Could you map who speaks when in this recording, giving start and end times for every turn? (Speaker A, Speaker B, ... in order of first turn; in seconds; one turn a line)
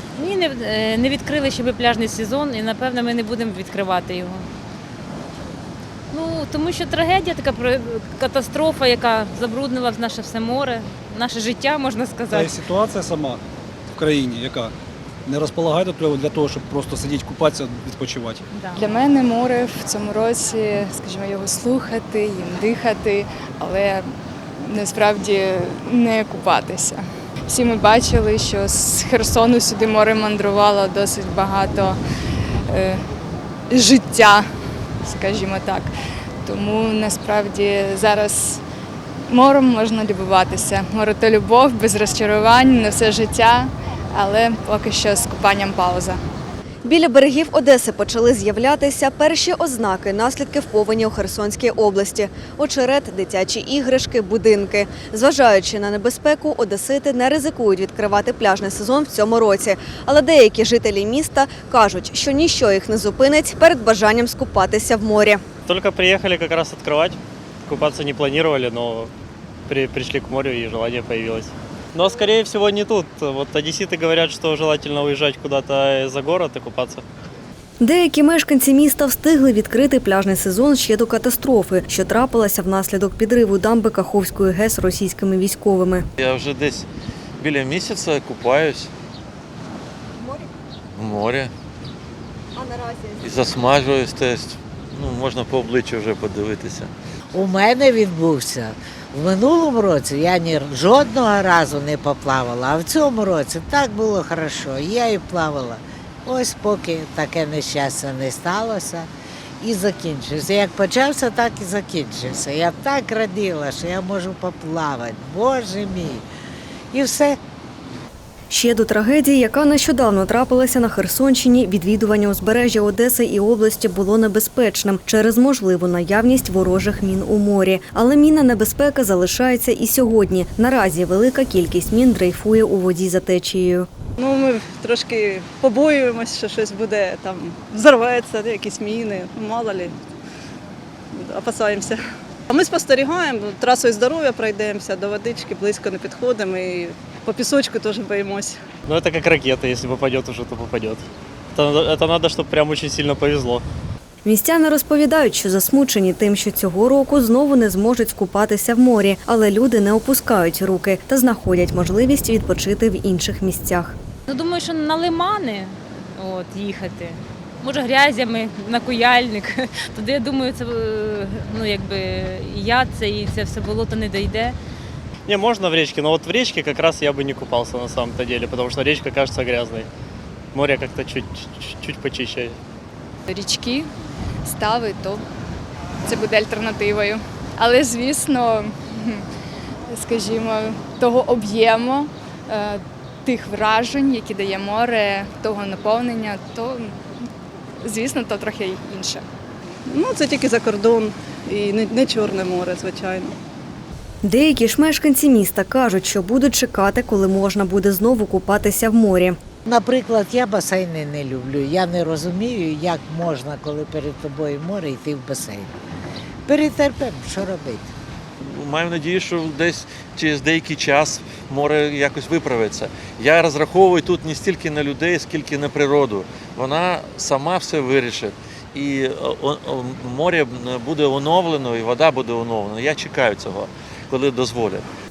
Speaker A: 0.2-4.5
Speaker A: 6.1-12.5
Speaker B: 12.3-13.4
Speaker B: 13.9-14.7
Speaker B: 15.2-18.4
Speaker A: 18.5-18.8
Speaker C: 18.7-32.0
Speaker C: 32.7-33.0
Speaker C: 33.7-34.5
Speaker C: 35.0-35.9
Speaker C: 36.4-38.6
Speaker C: 39.3-46.2
Speaker D: 46.8-65.4
Speaker E: 65.7-69.1
Speaker E: 69.7-77.0
Speaker D: 77.8-86.0
Speaker F: 86.2-86.9
Speaker F: 87.4-88.9
Speaker F: 90.9-91.5
Speaker D: 92.7-93.0
Speaker F: 93.2-96.9
Speaker G: 97.3-109.1
Speaker G: 109.6-116.2
Speaker G: 116.9-117.4
Speaker D: 118.5-133.9
Speaker H: 134.2-139.9
Speaker H: 141.2-142.0
Speaker H: 142.5-148.5
Speaker E: 148.9-153.6
Speaker D: 154.2-163.9
Speaker A: 164.3-174.6
Speaker E: 175.2-179.9
Speaker E: 180.5-182.6
Speaker C: 183.3-183.9
Speaker C: 184.4-185.2
Speaker C: 186.0-189.2
Speaker C: 189.9-196.9
Speaker C: 197.8-199.2
Speaker H: 199.9-203.3
Speaker D: 204.2-209.4
Speaker G: 209.7-215.7
Speaker G: 216.4-217.9
Speaker F: 218.4-234.8